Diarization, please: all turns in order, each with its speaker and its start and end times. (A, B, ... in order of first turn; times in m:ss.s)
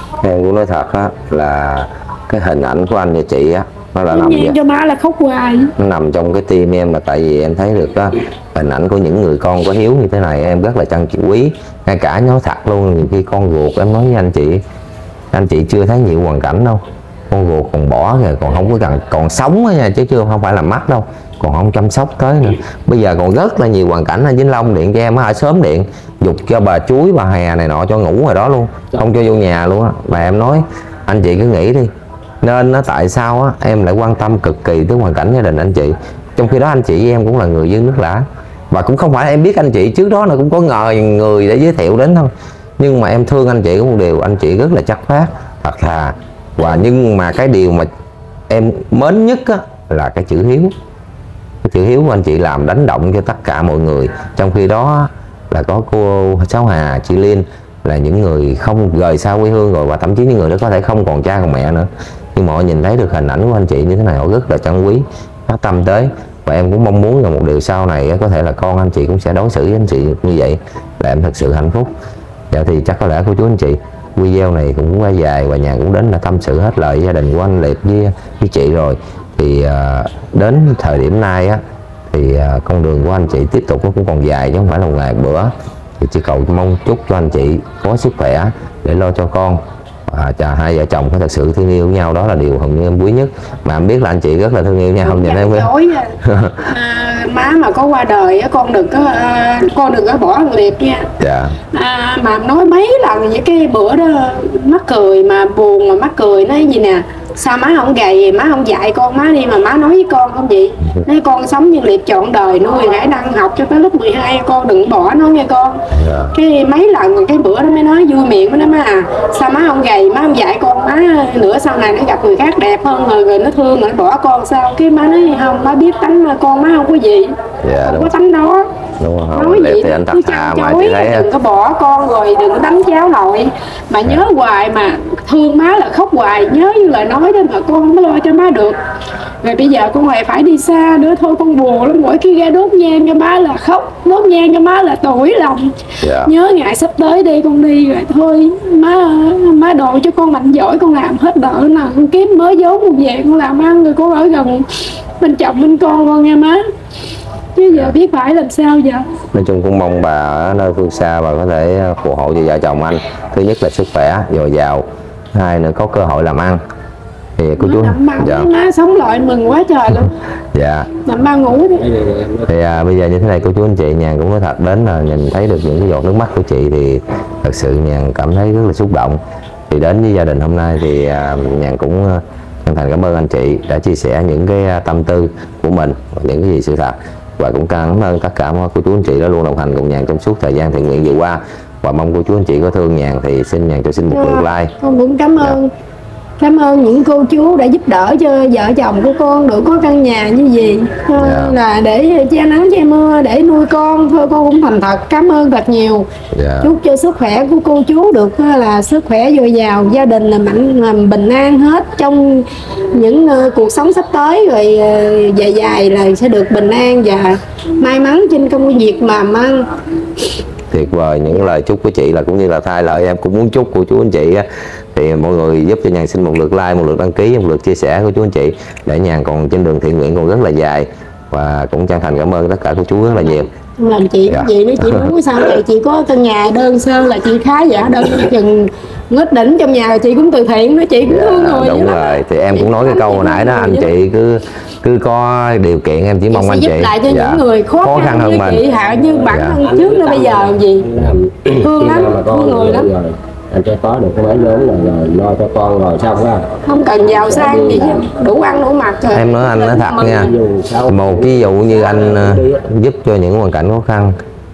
0:00.2-0:04.6 A
0:04.1-0:05.7 B
0:05.8-0:14.6 A
0:15.3-0:31.9 A
0:32.4-0:47.9 A
0:48.5-0:50.7 A
0:51.6-1:11.9 A
1:12.5-1:35.7 A
1:35.0-1:41.1 B
1:36.2-1:36.6 A
1:41.2-1:41.6 A
1:41.7-1:55.8 B
1:55.9-1:56.3 A
1:56.3-2:07.3 B
2:07.6-2:08.1 A
2:07.8-2:08.6 B
2:09.0-2:11.3 A
2:09.3-2:18.8 B
2:19.4-2:25.7 B
2:26.0-2:26.3 A
2:26.2-2:34.7 B
2:35.2-2:36.6 B
2:37.6-2:39.0 B
2:39.3-2:46.6 A
2:47.4-2:48.5 A
2:47.6-2:50.1 B
2:50.5-2:50.9 A
2:51.0-2:51.8 B
2:51.8-2:52.5 C
2:52.5-3:14.7 A
3:14.1-3:15.7 B
3:16.4-3:26.0 B
3:21.2-3:21.6 A
3:26.3-3:26.7 A
3:26.6-3:39.7 B
3:40.7-3:53.5 A
3:53.8-4:03.9 B
3:54.3-3:55.1 A
4:01.0-4:08.6 A
4:06.3-4:10.9 B
4:08.8-4:16.5 C
4:09.3-4:09.6 A
4:11.6-4:12.9 B
4:16.6-4:20.3 B
4:17.1-4:18.1 C
4:19.1-4:20.3 A
4:20.0-4:22.6 C
4:20.9-4:24.1 A